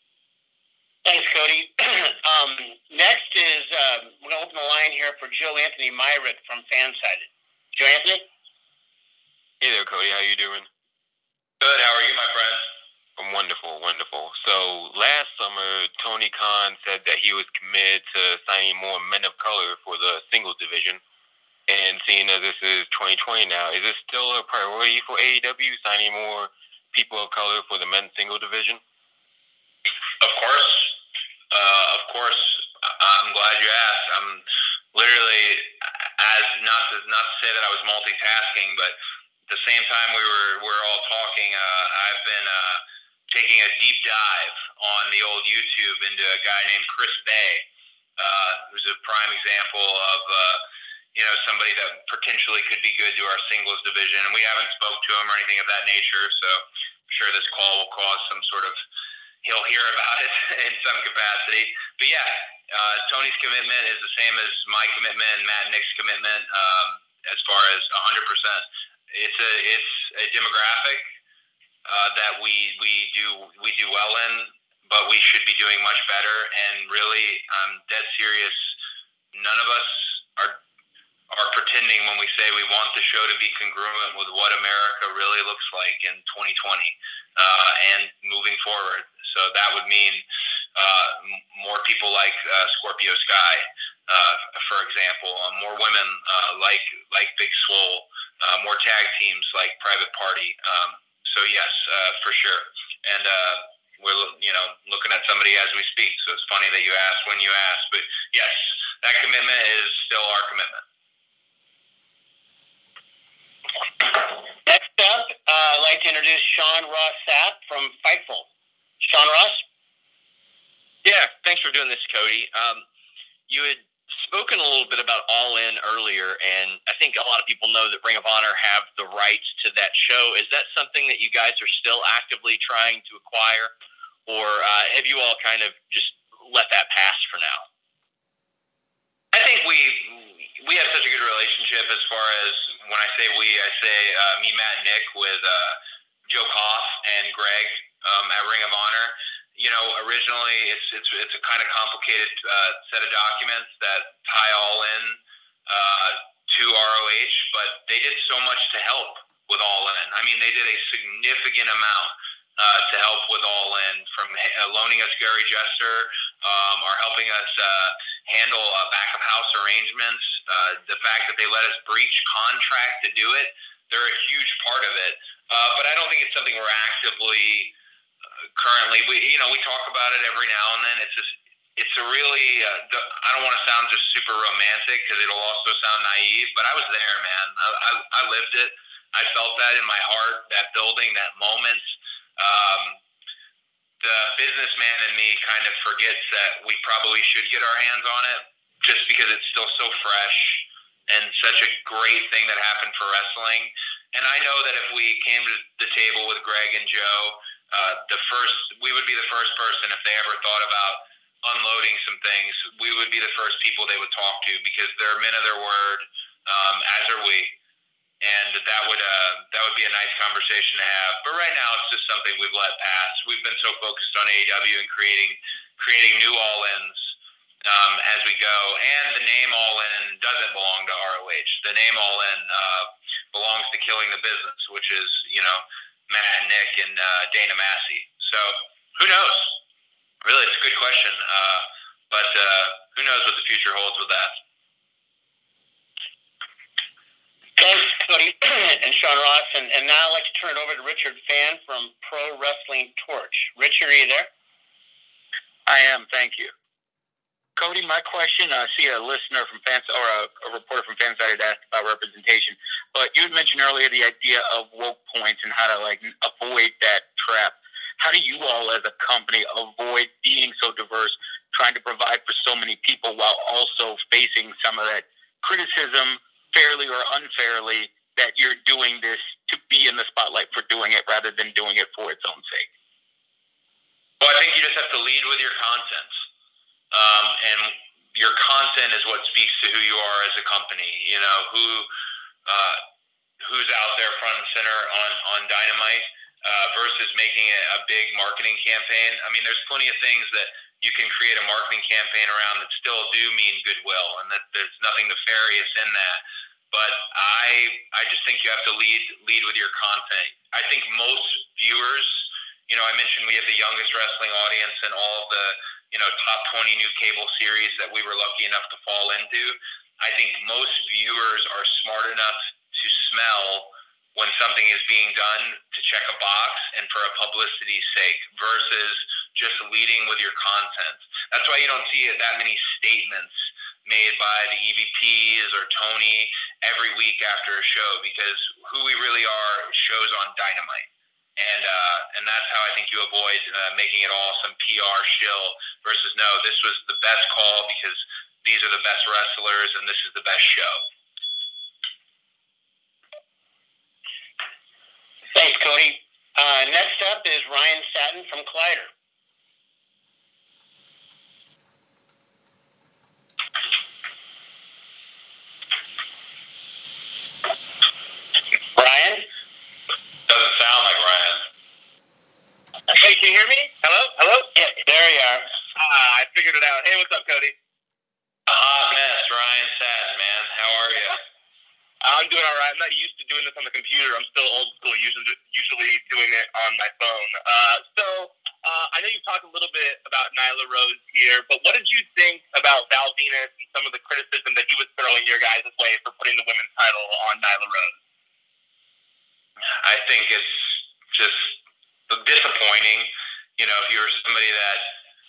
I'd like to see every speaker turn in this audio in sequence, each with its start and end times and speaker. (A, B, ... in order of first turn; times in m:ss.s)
0:01.0-0:08.2 A
0:09.6-0:10.7 B
0:11.6-0:12.7 C
0:13.2-0:21.0 B
0:21.7-0:28.8 B
0:30.2-0:31.0 C
0:31.5-0:39.0 C
0:39.5-0:47.6 C
0:48.2-0:50.6 C
0:51.2-0:58.8 C
0:59.4-1:11.0 C
1:11.9-1:18.8 C
1:19.3-1:20.6 C
1:21.3-1:30.2 C
1:30.8-1:50.8 C
1:54.6-1:58.5 A
1:59.0-1:59.6 A
2:01.0-2:02.8 D
2:03.5-2:13.7 D
2:14.3-2:17.6 D
2:19.3-2:57.7 C
2:58.6-3:13.0 C
3:14.0-3:37.5 C
3:38.2-3:59.6 C
4:00.2-4:04.4 C
4:07.6-4:14.3 A
4:15.7-4:16.5 E
4:17.6-4:42.7 E
4:44.2-4:46.2 C
4:46.9-4:51.9 C
4:52.5-4:52.8 C
4:53.4-5:50.8 C
5:55.3-5:58.9 A
6:08.8-6:09.3 A
6:10.3-6:11.4 C
6:13.0-6:14.4 F
6:14.6-6:15.5 A
6:15.8-6:17.5 F
6:18.5-6:21.2 C
6:22.1-6:37.9 F
6:39.8-6:45.0 C